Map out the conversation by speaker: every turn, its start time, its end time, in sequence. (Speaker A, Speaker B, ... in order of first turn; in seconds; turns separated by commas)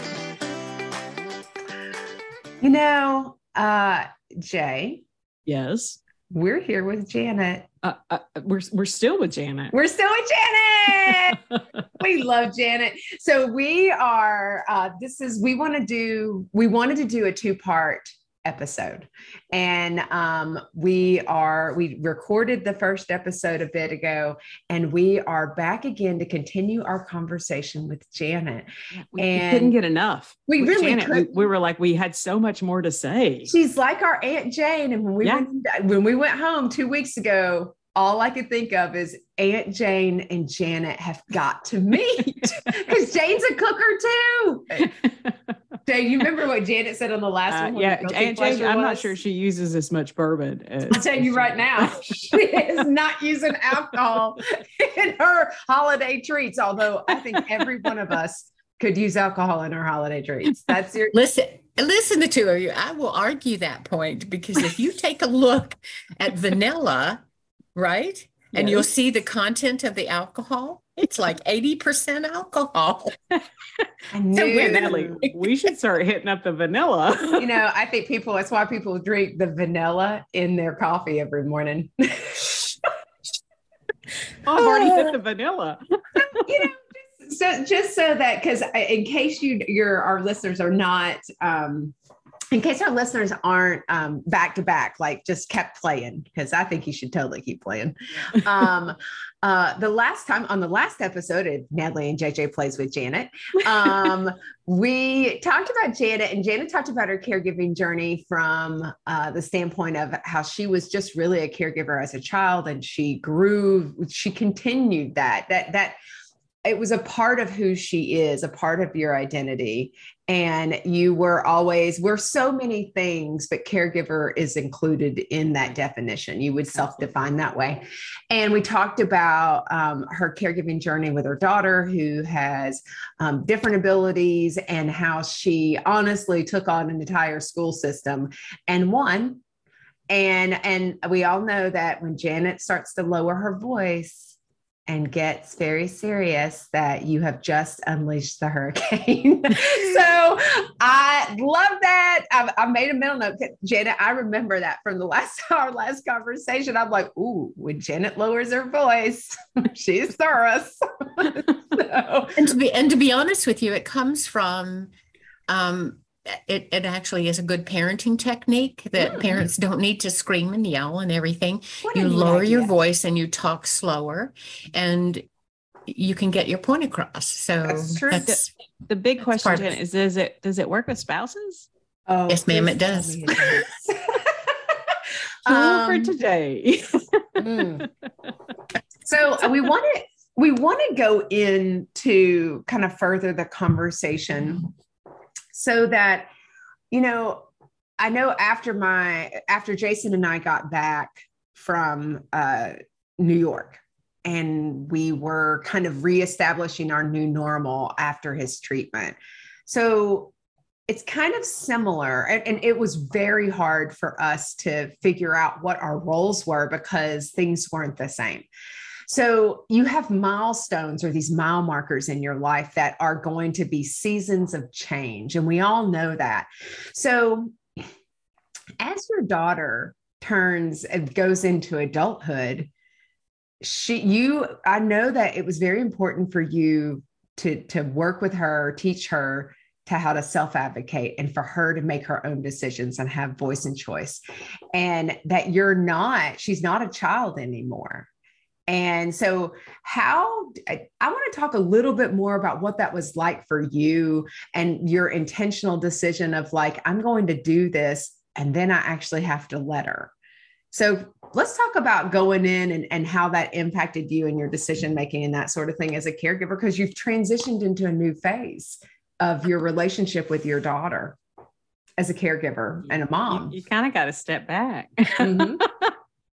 Speaker A: 2.6-5.0, Speaker B: 5.5-6.0, Speaker A: 6.3-7.7, Speaker B: 7.8-9.7, Speaker A: 9.7-11.4, Speaker B: 11.0-11.6, Speaker A: 12.0-29.8, Speaker B: 29.0-33.5, Speaker A: 30.5-31.5, Speaker A: 33.5-44.9, Speaker B: 44.8-45.5, Speaker A: 45.9-49.1, Speaker B: 47.5-52.4, Speaker A: 50.9-61.2, Speaker C: 61.1-67.2, Speaker C: 67.8-73.2, Speaker B: 68.5-68.8, Speaker A: 74.1-75.3, Speaker B: 74.3-77.5, Speaker A: 77.4-82.8, Speaker B: 84.4-86.4, Speaker A: 84.6-85.1, Speaker A: 86.3-92.0, Speaker A: 92.5-116.0, Speaker A: 116.7-139.4, Speaker A: 140.1-144.4, Speaker A: 144.9-162.4, Speaker C: 162.4-164.9, Speaker C: 165.5-175.2, Speaker A: 171.8-172.7, Speaker C: 175.9-178.5, Speaker A: 177.6-178.3, Speaker B: 178.1-181.7, Speaker C: 179.4-179.7, Speaker A: 182.1-184.3, Speaker C: 182.3-183.4, Speaker A: 185.4-186.2, Speaker B: 185.5-187.9, Speaker A: 187.4-187.9, Speaker A: 189.1-194.7, Speaker A: 195.5-196.3, Speaker A: 196.9-197.5, Speaker A: 198.0-209.2, Speaker A: 209.7-210.3, Speaker A: 210.9-218.5, Speaker A: 219.1-227.6, Speaker A: 228.8-232.7, Speaker A: 233.6-244.2, Speaker A: 244.7-248.1, Speaker A: 248.7-260.1, Speaker A: 260.7-271.2, Speaker A: 272.0-273.6, Speaker B: 273.3-275.9, Speaker A: 275.2-275.6